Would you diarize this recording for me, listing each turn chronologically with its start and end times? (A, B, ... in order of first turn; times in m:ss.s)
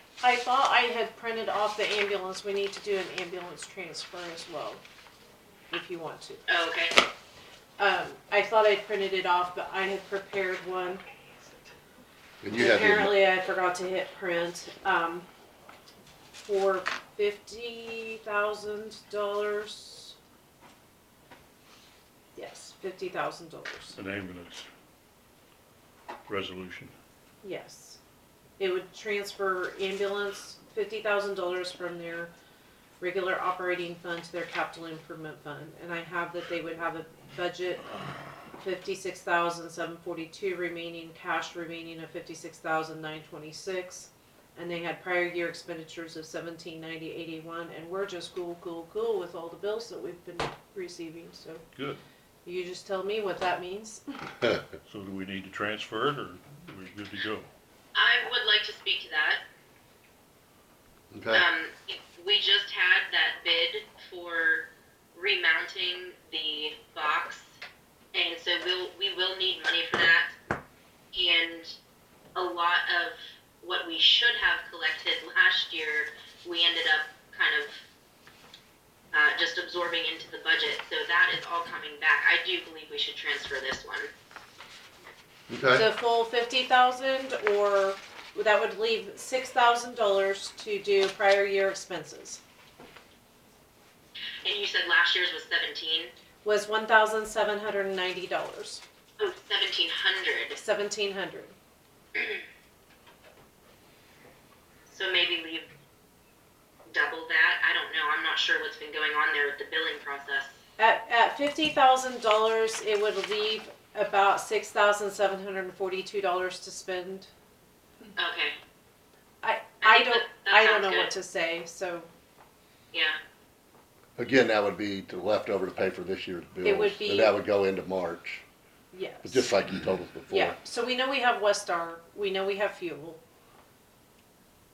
0:00.2-0:04.8 A
0:05.7-0:06.4 A
0:06.5-0:06.9 B
0:07.8-0:11.0 A
0:12.4-0:13.1 C
0:12.5-0:15.2 A
0:16.4-0:20.1 A
0:22.4-0:24.0 A
0:24.0-0:24.7 D
0:26.3-0:26.9 D
0:27.4-0:28.0 A
0:28.6-0:32.3 A
0:33.0-0:37.9 A
0:38.6-0:51.6 A
0:52.4-0:54.3 A
0:54.9-0:57.5 D
0:57.9-0:59.4 B
1:01.1-1:01.4 C
1:01.3-1:07.6 B
1:08.1-1:10.3 B
1:11.1-1:11.7 B
1:12.4-1:17.7 B
1:19.1-1:24.1 B
1:25.5-1:25.9 C
1:25.7-1:32.4 A
1:34.4-1:36.1 B
1:36.4-1:38.8 A
1:39.2-1:40.6 B
1:40.6-1:41.5 A
1:44.9-1:45.7 B
1:46.9-1:50.5 B
1:50.8-1:57.3 A
1:58.2-1:58.6 B
1:59.4-2:02.1 A
1:59.8-2:01.1 B
2:04.2-2:08.4 C
2:06.6-2:07.3 A
2:08.9-2:09.5 A
2:09.2-2:10.5 C
2:10.3-2:13.2 A